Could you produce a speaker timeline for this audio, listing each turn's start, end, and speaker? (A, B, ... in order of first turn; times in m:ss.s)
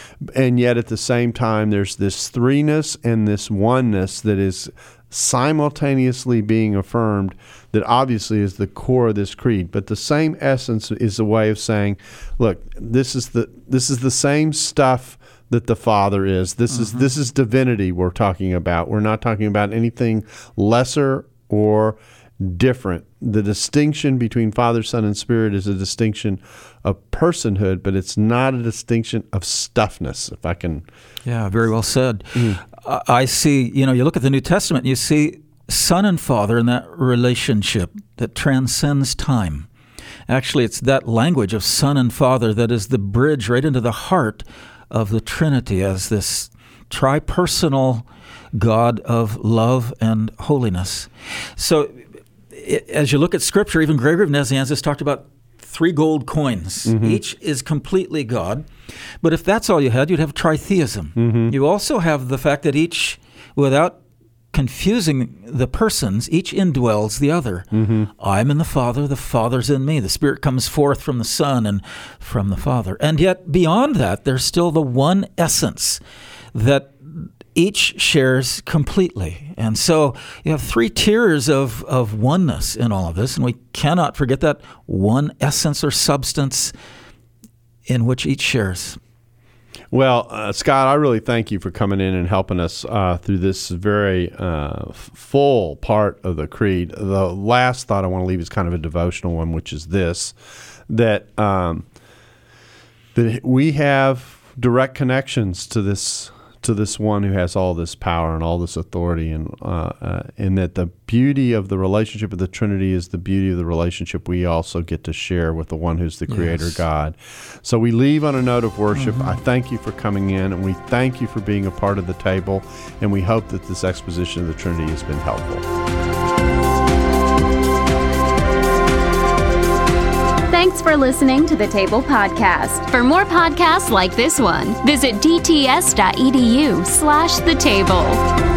0:00.2-0:30.8 A
0:31.2-0:39.7 B
0:32.3-0:32.6 A
0:40.3-0:52.0 B
0:52.5-0:58.7 B
0:56.8-0:57.2 A
0:59.2-1:04.0 B
1:01.2-1:01.5 A
1:04.5-1:16.0 B
1:07.7-1:08.1 A
1:16.5-1:26.7 B
1:27.9-1:29.0 B
1:29.9-1:40.3 A
1:40.9-1:41.8 A
1:43.1-2:05.6 A
1:56.3-1:56.8 B
1:58.9-1:59.4 B
2:10.5-2:18.2 C